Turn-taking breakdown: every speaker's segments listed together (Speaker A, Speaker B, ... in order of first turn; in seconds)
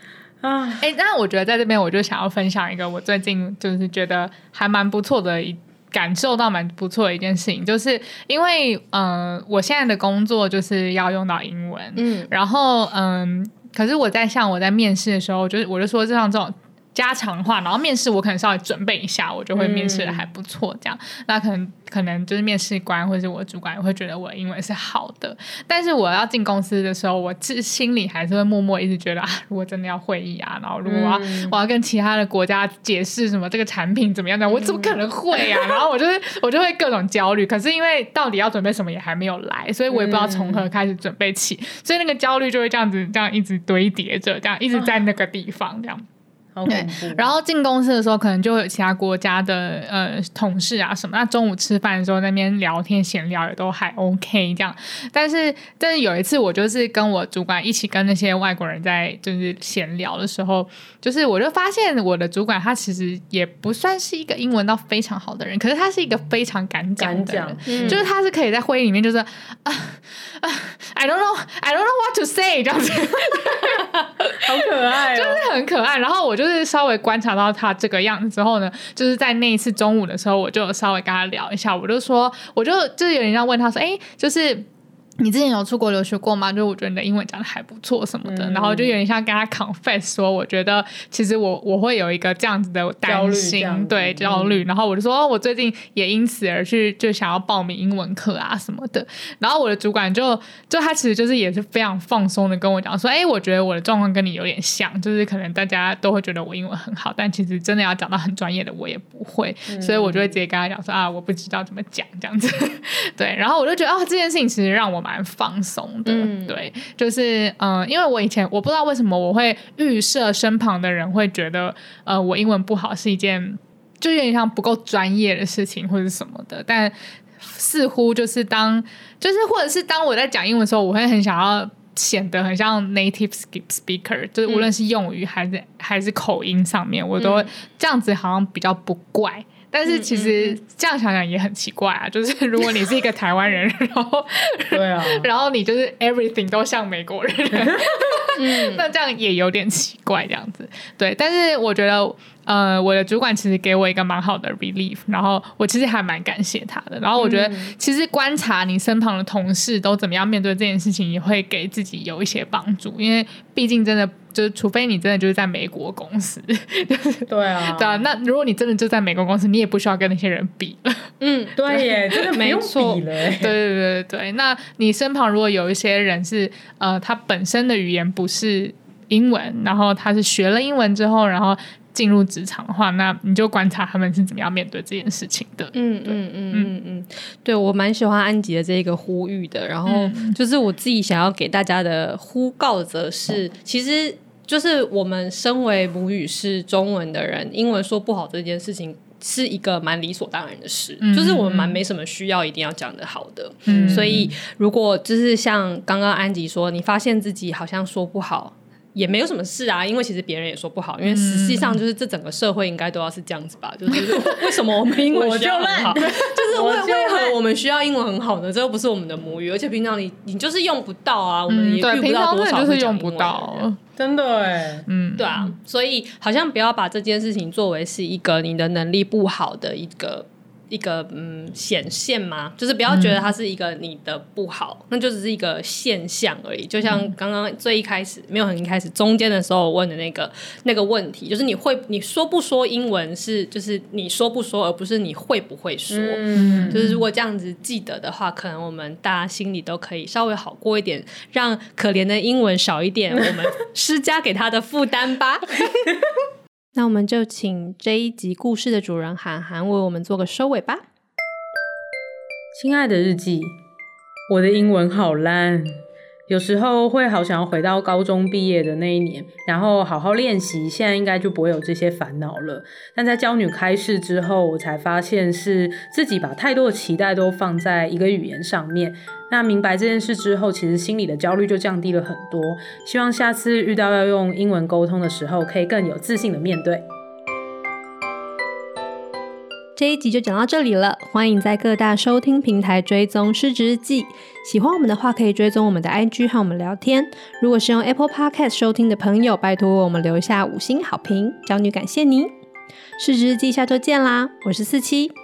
Speaker A: 0.4-0.9, 19.5-20.2, 30.8-31.6, 34.5-35.0, 39.9-40.6, 46.5-47.3, 67.0-68.1, 74.4-75.5, 88.2-89.0, 93.0-94.6, 109.7-110.4, 144.7-145.3, 167.3-168.1, 171.5-173.6, 203.7-204.3, 215.1-217.4, 224.0-224.8, 245.9-246.8, 262.5-263.6, 264.3-286.8
Speaker B: 0.8-46.0, 46.7-74.4, 75.1-84.7, 85.2-171.1, 173.4-186.7, 189.8-190.4, 201.0-201.8, 203.7-204.3, 211.0-211.8, 221.5-223.8, 224.9-225.6, 232.9-233.2, 236.8-237.1, 246.3-247.0
Speaker C: 11.9-12.3, 67.7-68.1, 116.0-116.6, 137.2-137.5, 139.8-140.6, 148.3-148.9, 171.2-173.0, 185.7-223.6, 225.2-255.9, 256.7-260.8, 289.8-302.3, 303.0-305.1